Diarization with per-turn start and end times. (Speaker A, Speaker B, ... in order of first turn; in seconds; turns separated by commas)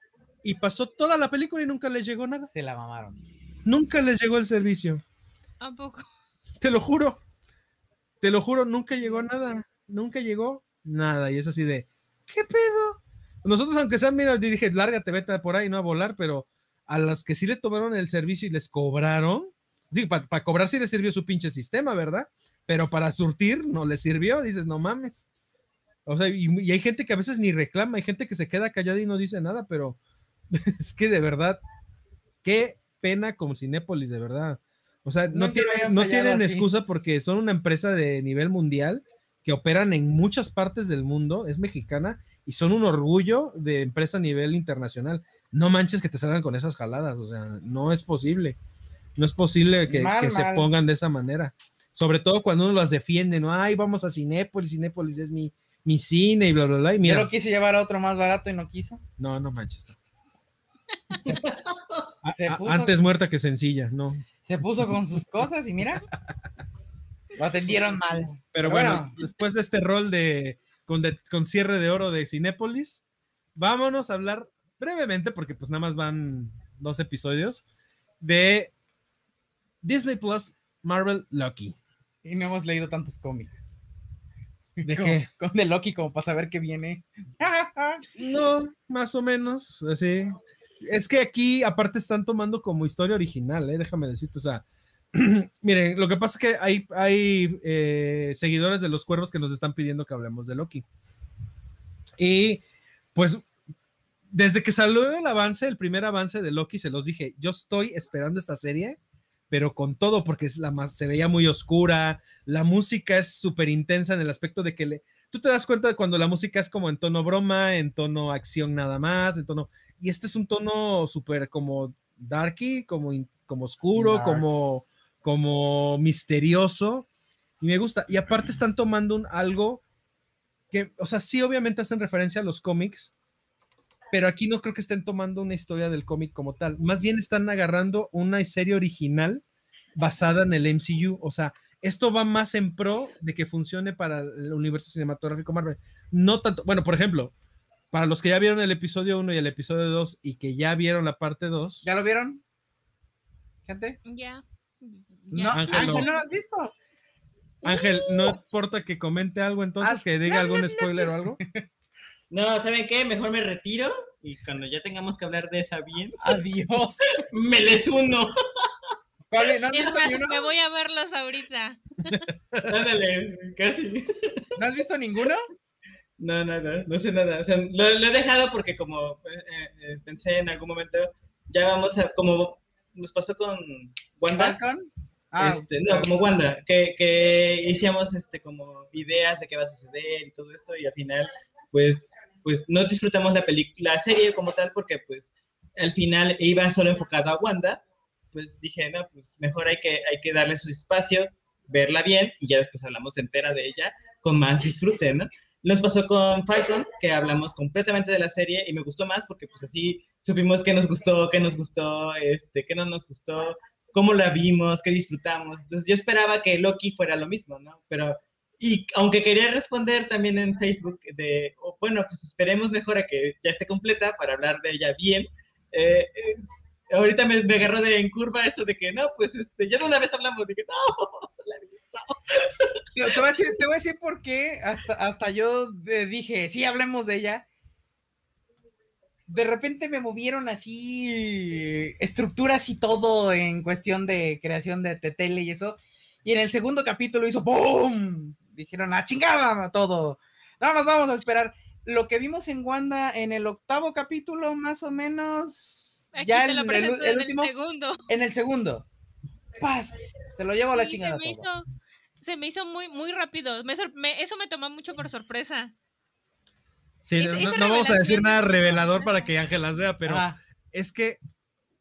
Speaker A: 0.4-2.5, Speaker B: 2.5-3.2, Speaker A: 3.6-5.0, Speaker C: 5.6-6.1, Speaker A: 6.6-7.2, Speaker A: 8.2-25.3, Speaker A: 26.1-30.0, Speaker A: 30.5-31.6, Speaker A: 32.4-48.6, Speaker B: 35.3-36.7, Speaker A: 49.2-57.3, Speaker B: 49.9-50.7, Speaker B: 57.0-59.0, Speaker A: 59.2-60.0, Speaker A: 62.2-64.2, Speaker B: 62.3-63.0, Speaker B: 64.4-66.0, Speaker B: 67.4-69.2, Speaker A: 68.5-73.0, Speaker A: 73.6-77.6, Speaker A: 78.2-78.7, Speaker A: 79.8-81.8, Speaker B: 82.2-83.6, Speaker B: 84.8-88.0, Speaker A: 84.8-85.3, Speaker A: 88.1-100.8, Speaker A: 102.2-102.6, Speaker A: 103.2-103.5, Speaker A: 104.3-109.0, Speaker A: 109.5-127.1, Speaker B: 123.9-124.8, Speaker A: 127.6-129.8, Speaker A: 130.7-133.1, Speaker A: 134.1-139.4, Speaker A: 140.0-147.3, Speaker A: 147.9-151.8, Speaker B: 151.8-152.4, Speaker B: 153.7-154.0, Speaker C: 154.1-156.2, Speaker B: 155.3-156.7, Speaker A: 155.5-156.1, Speaker A: 157.6-161.4, Speaker B: 159.8-160.1, Speaker C: 160.3-161.1, Speaker D: 162.3-166.2, Speaker B: 166.2-167.1, Speaker D: 167.3-168.7, Speaker B: 169.3-170.4, Speaker C: 169.7-172.2, Speaker A: 172.1-172.7, Speaker D: 172.7-174.4, Speaker B: 174.6-175.4, Speaker D: 176.2-184.6, Speaker B: 184.4-186.1, Speaker D: 185.4-197.8, Speaker D: 198.3-232.7, Speaker B: 232.9-237.4, Speaker B: 239.3-257.5, Speaker C: 256.1-258.0, Speaker B: 258.1-258.9, Speaker B: 259.6-261.4, Speaker C: 260.7-261.7, Speaker C: 262.2-265.7, Speaker A: 267.0-271.2, Speaker C: 267.2-269.3, Speaker B: 270.1-270.4